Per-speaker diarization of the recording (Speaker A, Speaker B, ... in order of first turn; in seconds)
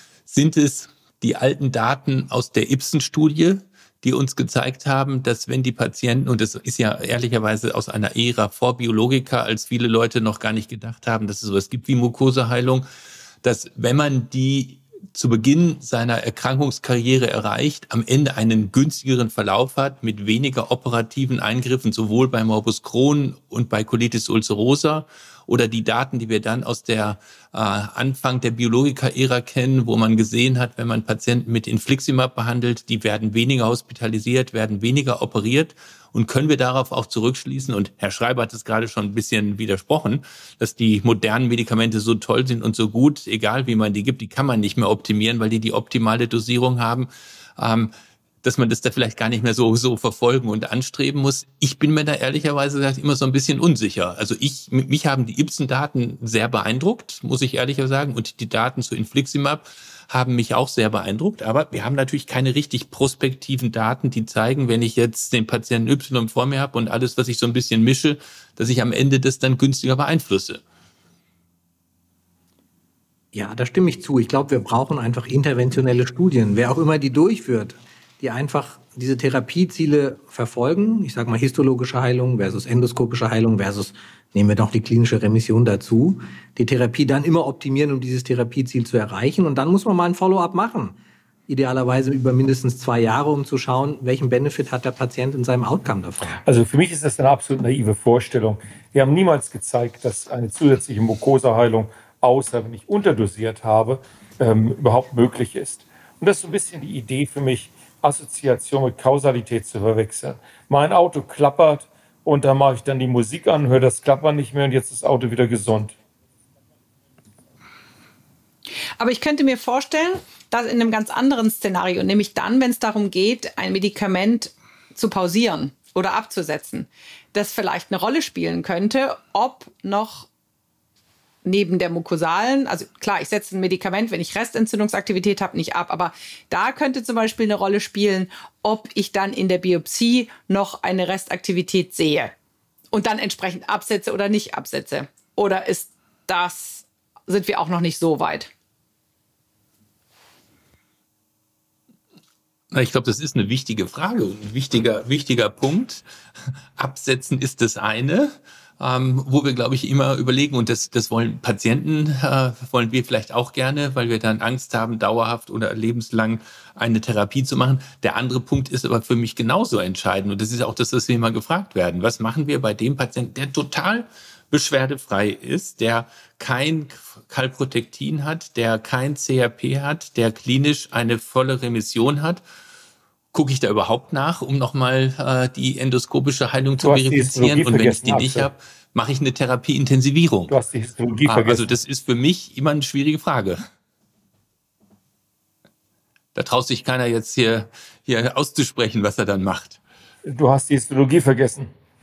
Speaker A: 0.3-12.8, 13.4-47.9, 48.4-70.6, 152.7-156.0, 156.8-182.4, 183.3-190.6, 191.3-193.6, 196.3-199.8
Speaker B: 73.3-91.0, 91.5-96.4
Speaker C: 96.4-116.0, 186.8-188.5, 190.5-191.7, 200.2-201.7
Speaker D: 119.0-130.3, 131.4-142.3, 142.9-148.5